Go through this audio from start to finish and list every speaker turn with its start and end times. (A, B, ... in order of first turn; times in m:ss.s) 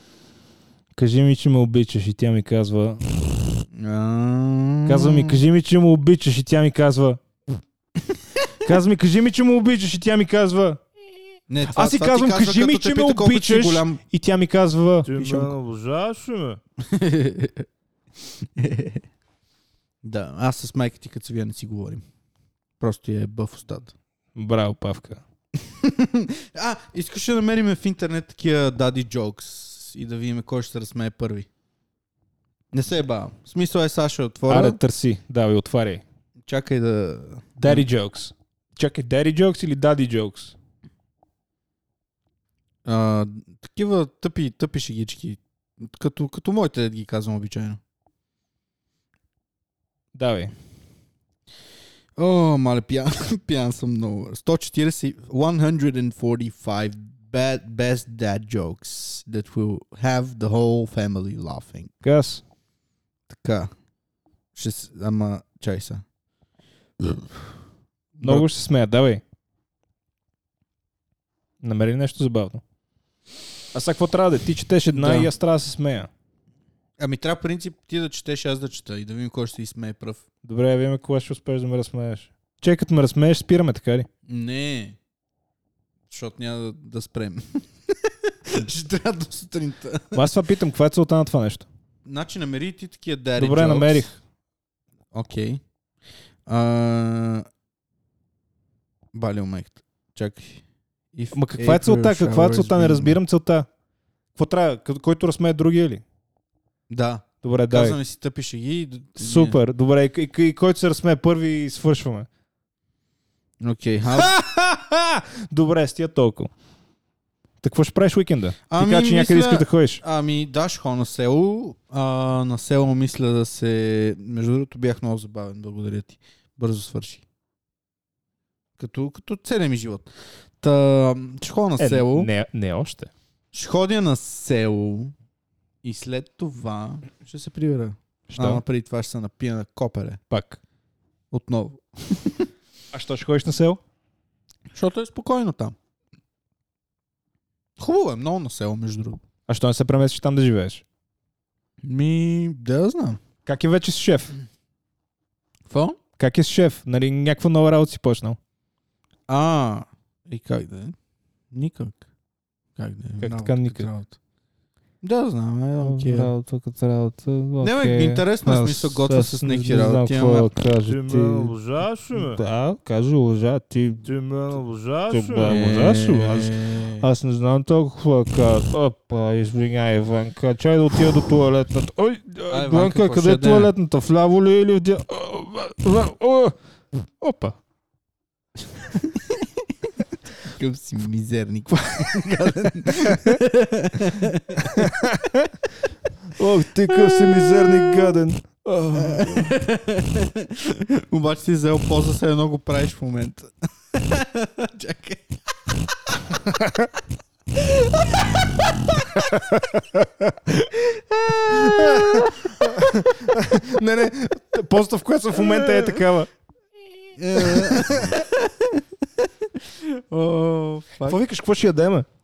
0:00.9-0:03.0 A
0:03.7-0:05.4 B
0:04.8-0:07.2 A
0:08.6-0:10.8 A
0:11.5-0:14.0 B
0:11.7-0:15.5 A
0:15.0-0:16.6 C
0:16.8-0:17.7 B
0:18.4-0:19.0 B
0:20.0-0:22.0 B
0:22.8-0:23.9 B
0:24.3-0:25.2 A
0:25.6-0:31.5 B
0:32.7-0:34.8 B
0:34.5-0:36.0 A
0:36.5-0:37.9 B
0:37.6-0:40.5 A
0:42.8-0:47.8 B
0:50.1-0:50.5 A
0:52.2-1:01.9 B
1:02.0-1:02.4 A
1:03.3-1:03.7 B
1:04.5-1:06.0 B
1:08.2-1:08.5 B
1:08.2-1:09.2 A
1:11.6-1:12.6 A
1:13.7-1:16.1 A
1:14.9-1:15.3 B
1:17.0-1:20.2 B
1:20.4-1:24.1 A
1:24.2-1:25.0 B
1:26.1-1:30.2 B
1:30.1-1:31.6 A
1:32.0-1:34.1 B
1:33.4-1:34.1 A
1:35.1-1:35.6 B
1:36.4-1:37.5 B
1:39.1-1:40.6 B
1:41.1-1:43.2 B
1:41.3-1:43.7 A
1:44.3-1:46.0 A
1:46.9-1:49.6 B
1:47.4-1:48.0 A
1:49.2-1:52.3 A
1:53.6-1:54.3 B
1:54.1-1:56.5 A
1:57.6-2:00.0 A
1:58.7-2:07.2 B
2:08.8-2:10.1 B
2:10.6-2:12.3 B
2:11.8-2:13.1 A
2:13.5-2:15.1 B
2:15.8-2:20.2 B
2:18.3-2:18.6 A
2:20.3-2:20.6 A
2:21.3-2:22.5 B
2:22.9-2:23.8 A
2:24.7-2:25.8 B
2:27.8-2:29.2 B
2:29.5-2:30.8 A
2:31.8-2:33.2 B
2:33.4-2:34.3 A
2:35.7-2:36.0 B
2:36.2-2:38.4 A
2:39.3-2:40.9 B
2:41.5-2:42.0 B
2:42.8-2:44.2 B
2:43.2-2:43.9 A
2:45.0-2:46.3 B
2:45.8-2:51.5 A
2:47.6-2:50.5 B
2:50.8-2:52.4 C
2:52.1-2:54.0 A
2:54.0-2:56.0 C
2:55.1-3:07.6 A
2:55.4-2:57.0 B
3:02.5-3:03.7 B
3:09.0-3:09.4 B
3:10.4-3:14.9 B
3:12.0-3:13.4 A
3:14.6-3:15.6 A
3:16.4-3:19.6 A
3:16.9-3:18.1 B
3:18.9-3:25.4 B
3:26.1-3:26.4 B
3:26.4-3:26.9 A
3:27.8-3:28.2 B
3:29.1-3:30.8 A
3:31.2-3:32.3 B
3:31.4-3:36.3 A
3:37.2-3:38.8 B
3:37.3-3:38.2 A
3:39.6-3:41.2 B
3:41.0-3:42.1 A